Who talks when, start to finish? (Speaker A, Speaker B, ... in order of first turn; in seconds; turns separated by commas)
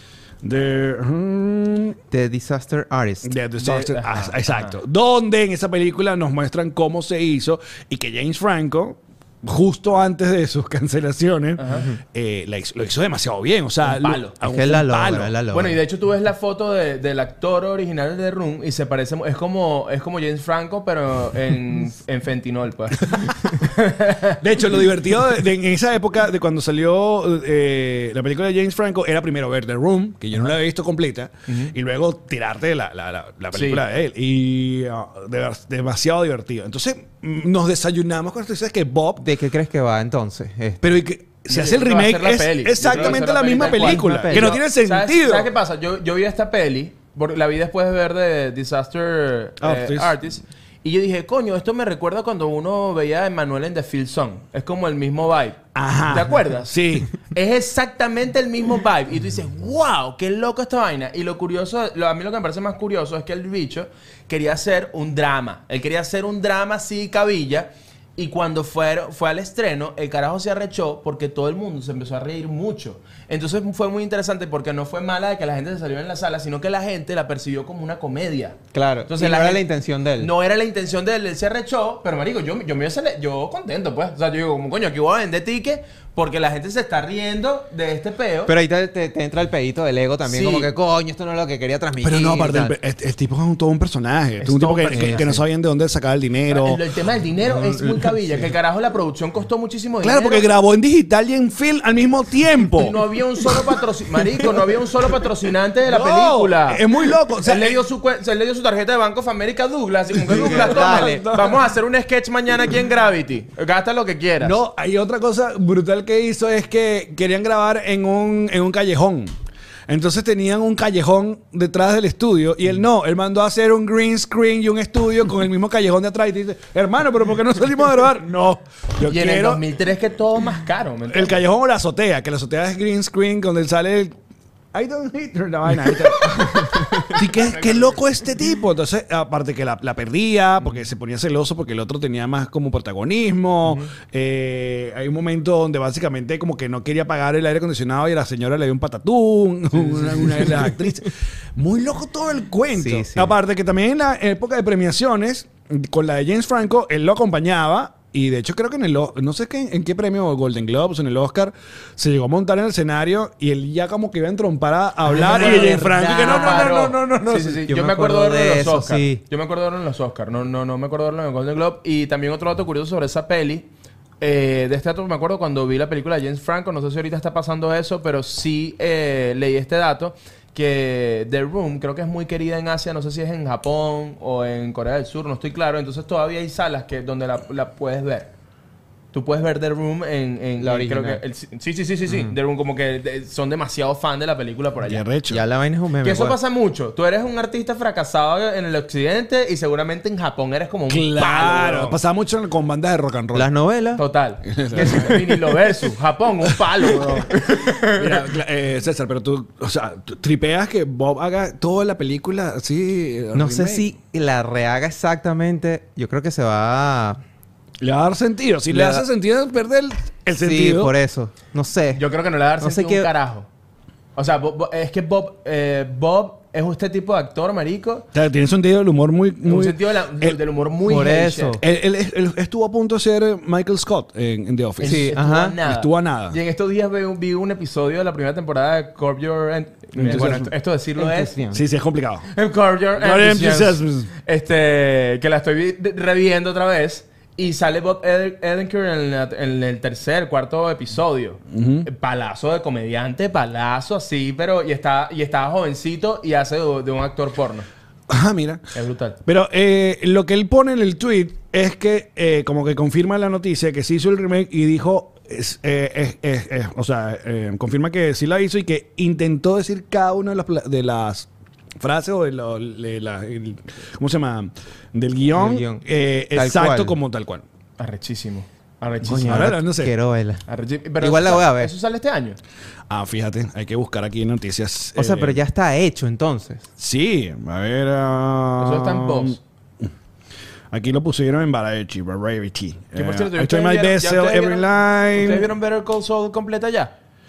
Speaker A: 0.4-2.0, Speaker B: 2.1-3.3, Speaker A: 3.2-15.3, Speaker C: 3.6-4.8, Speaker C: 11.6-11.9, Speaker C: 13.8-14.3, Speaker B: 14.4-15.8, Speaker C: 15.5-24.4, Speaker A: 24.4-39.2, Speaker C: 31.5-31.7, Speaker C: 33.5-33.8, Speaker B: 39.2-40.9, Speaker A: 40.8-45.5, Speaker C: 41.5-79.6, Speaker B: 42.9-44.6, Speaker A: 49.6-50.1, Speaker A: 55.8-57.1, Speaker B: 78.7-80.3, Speaker C: 80.2-88.5, Speaker B: 88.5-92.7, Speaker C: 90.3-90.7, Speaker A: 92.0-96.8, Speaker C: 94.4-95.4, Speaker B: 94.9-95.3, Speaker C: 96.5-100.5, Speaker B: 97.5-98.1, Speaker A: 100.0-103.8, Speaker C: 102.7-106.8, Speaker A: 104.3-104.7, Speaker A: 105.9-107.8, Speaker C: 107.4-114.6, Speaker A: 110.1-111.6, Speaker B: 110.3-111.2, Speaker A: 114.4-119.3, Speaker A: 119.9-129.6, Speaker C: 129.1-131.4, Speaker A: 131.1-134.2, Speaker A: 134.7-167.6, Speaker C: 137.2-138.2, Speaker B: 152.8-153.3, Speaker B: 165.1-166.7, Speaker C: 165.3-173.7, Speaker B: 167.7-169.2, Speaker C: 174.2-188.3, Speaker C: 189.1-195.0, Speaker B: 190.6-191.2, Speaker A: 194.8-195.4, Speaker B: 195.3-196.4, Speaker C: 196.0-202.0, Speaker A: 200.9-203.5, Speaker B: 203.3-204.0, Speaker C: 204.0-208.3, Speaker A: 204.5-205.6, Speaker A: 206.8-207.2, Speaker A: 207.9-213.9, Speaker B: 213.3-217.2, Speaker A: 217.8-220.9, Speaker B: 218.7-219.0, Speaker B: 220.4-222.1, Speaker C: 221.9-223.5, Speaker B: 222.6-223.1, Speaker C: 224.2-228.1, Speaker A: 228.1-230.4, Speaker C: 229.4-231.6, Speaker B: 230.9-231.6, Speaker A: 231.6-235.1, Speaker C: 234.8-241.3, Speaker B: 234.8-235.6, Speaker A: 235.6-236.4, Speaker A: 240.0-240.5, Speaker B: 240.0-240.4, Speaker B: 241.0-241.6, Speaker A: 241.5-242.3, Speaker C: 242.3-257.7, Speaker A: 243.0-244.1, Speaker A: 251.5-251.9, Speaker A: 258.1-258.6, Speaker C: 258.7-259.2, Speaker A: 259.2-271.3, Speaker A: 271.8-277.4, Speaker B: 275.4-277.0, Speaker C: 277.8-279.5, Speaker A: 279.1-279.9, Speaker B: 279.1-280.4, Speaker C: 280.5-282.4, Speaker B: 281.0-281.7, Speaker A: 282.9-285.4, Speaker B: 285.0-286.7, Speaker A: 286.8-289.9, Speaker C: 288.6-289.4, Speaker A: 290.7-295.5, Speaker C: 292.9-296.9